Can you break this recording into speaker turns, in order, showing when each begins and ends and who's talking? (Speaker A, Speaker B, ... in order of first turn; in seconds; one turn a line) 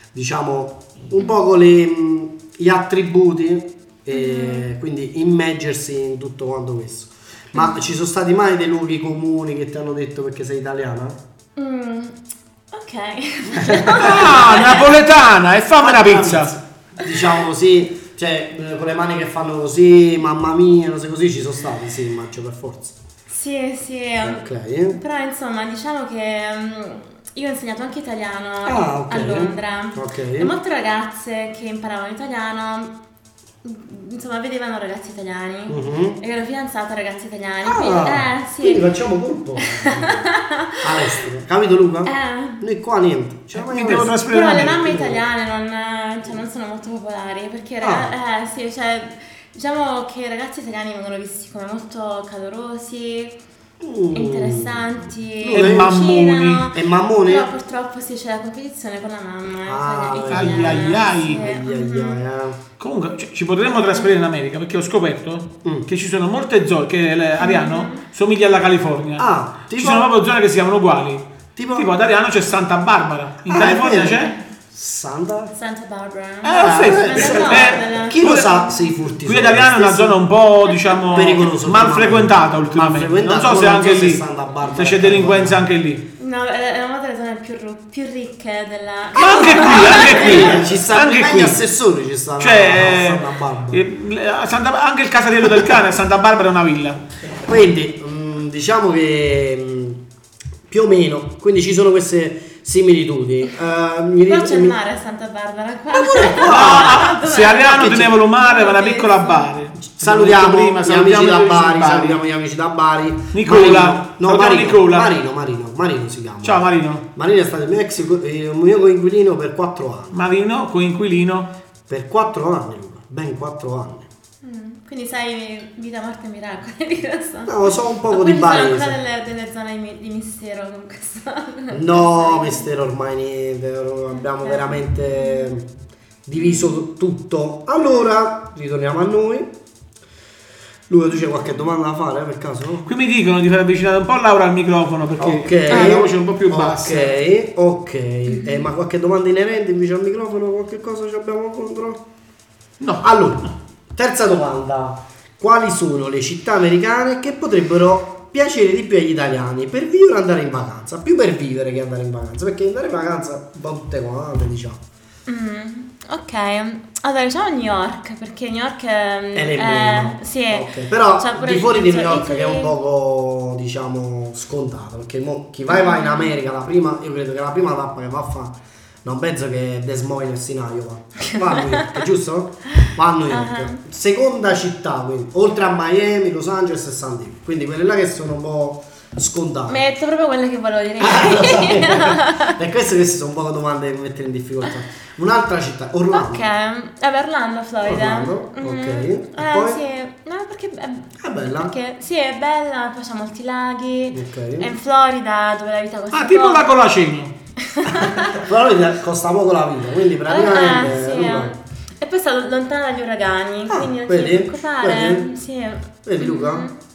Speaker A: 0.1-11.2
Speaker B: 4.1-4.7
Speaker B: 11.6-12.2
Speaker B: 12.7-14.9
Speaker A: 13.5-14.6
Speaker C: 13.9-16.5
Speaker A: 15.8-23.0
Speaker B: 23.3-32.9
Speaker A: 24.2-25.0
Speaker A: 28.6-30.5
Speaker B: 33.6-38.9
Speaker A: 35.7-36.2
Speaker A: 37.7-40.3
Speaker B: 39.6-41.1
Speaker A: 40.8-45.2
Speaker B: 42.0-42.6
Speaker C: 43.5-45.0
Speaker B: 44.3-53.4
Speaker A: 47.8-48.1
Speaker A: 53.8-54.9
Speaker B: 54.1-62.2
Speaker A: 55.4-56.0
Speaker C: 55.5-56.6
Speaker A: 56.7-57.5
Speaker A: 59.6-62.6
Speaker C: 60.3-61.4
Speaker C: 62.8-74.3
Speaker B: 63.7-64.1
Speaker B: 67.4-68.0
Speaker A: 69.2-70.1
Speaker A: 71.6-71.9
Speaker A: 73.5-75.5
Speaker B: 75.5-78.7
Speaker C: 76.4-78.6
Speaker A: 76.6-80.2
Speaker C: 79.2-86.0
Speaker A: 81.1-85.7
Speaker B: 86.2-90.6
Speaker A: 89.2-93.8
Speaker C: 89.2-91.6
Speaker C: 92.4-97.0
Speaker A: 97.4-100.0
Speaker A: 100.7-104.8
Speaker B: 104.2-109.5
Speaker A: 105.9-108.2
Speaker C: 106.4-112.2
Speaker A: 109.9-120.2
Speaker C: 113.3-115.1
Speaker C: 116.4-117.0
Speaker C: 120.1-121.5
Speaker A: 121.9-124.1
Speaker B: 124.4-132.7
Speaker A: 127.5-129.0
Speaker A: 131.7-135.7
Speaker B: 134.1-135.5
Speaker A: 136.3-139.6
Speaker B: 136.4-136.8
Speaker A: 140.9-142.9
Speaker C: 142.9-147.1
Speaker A: 145.2-152.0
Speaker B: 145.7-145.9
Speaker B: 148.3-148.6
Speaker C: 152.8-153.1
Speaker A: 153.0-164.8
Speaker B: 165.3-172.7
Speaker A: 169.3-189.8
Speaker B: 175.7-176.3
Speaker B: 181.3-182.0
Speaker B: 183.3-183.8
Speaker B: 189.7-192.6
Speaker A: 191.0-196.5
Speaker B: 196.1-206.7
Speaker A: 197.8-199.8
Speaker A: 201.2-201.8
Speaker A: 204.1-204.7
Speaker C: 206.1-207.3
Speaker B: 207.6-208.4
Speaker A: 207.9-211.6
Speaker B: 210.3-216.7
Speaker A: 213.7-215.3
Speaker A: 216.0-216.7